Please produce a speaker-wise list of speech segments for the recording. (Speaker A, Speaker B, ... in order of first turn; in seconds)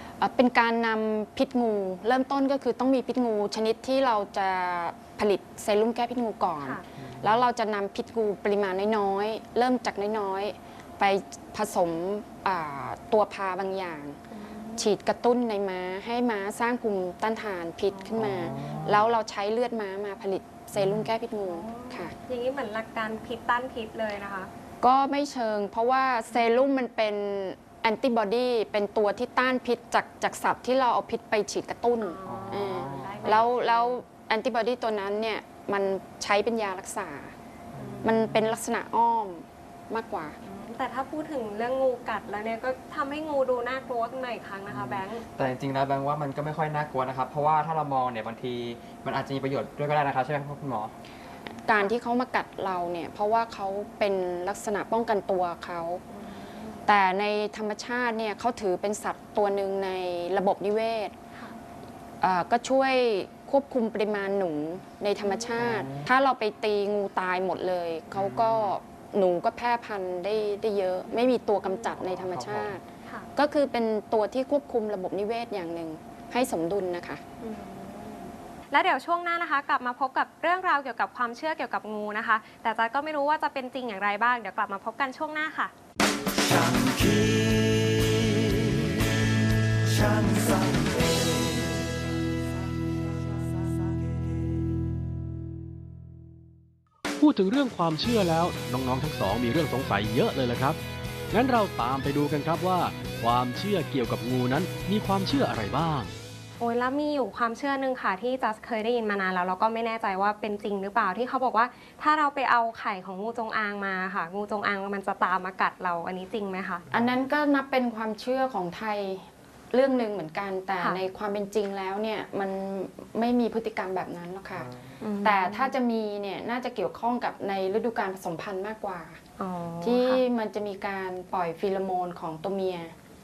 Speaker A: 0.2-14.2, 14.8-22.1, 24.8-37.3, 38.0-40.4, 51.7-56.0, 56.9-61.1, 62.2-72.8, 73.4-77.2, 116.9-124.7, 125.2-129.2, 129.8-132.9
Speaker B: 6.6-6.9, 14.3-14.9, 17.9-19.0, 21.4-24.5, 26.3-26.7, 32.0-34.0, 37.8-38.1, 40.4-45.2, 56.1-56.9, 65.2-65.5, 71.1-72.1, 77.4-85.7, 106.6-116.8, 125.0-125.8, 129.4-130.2
Speaker C: 18.2-18.5, 44.7-50.9, 65.6-66.1, 68.2-68.7, 72.2-72.8
Speaker D: 86.4-89.0, 89.8-91.7
Speaker E: 97.2-100.8, 101.3-106.1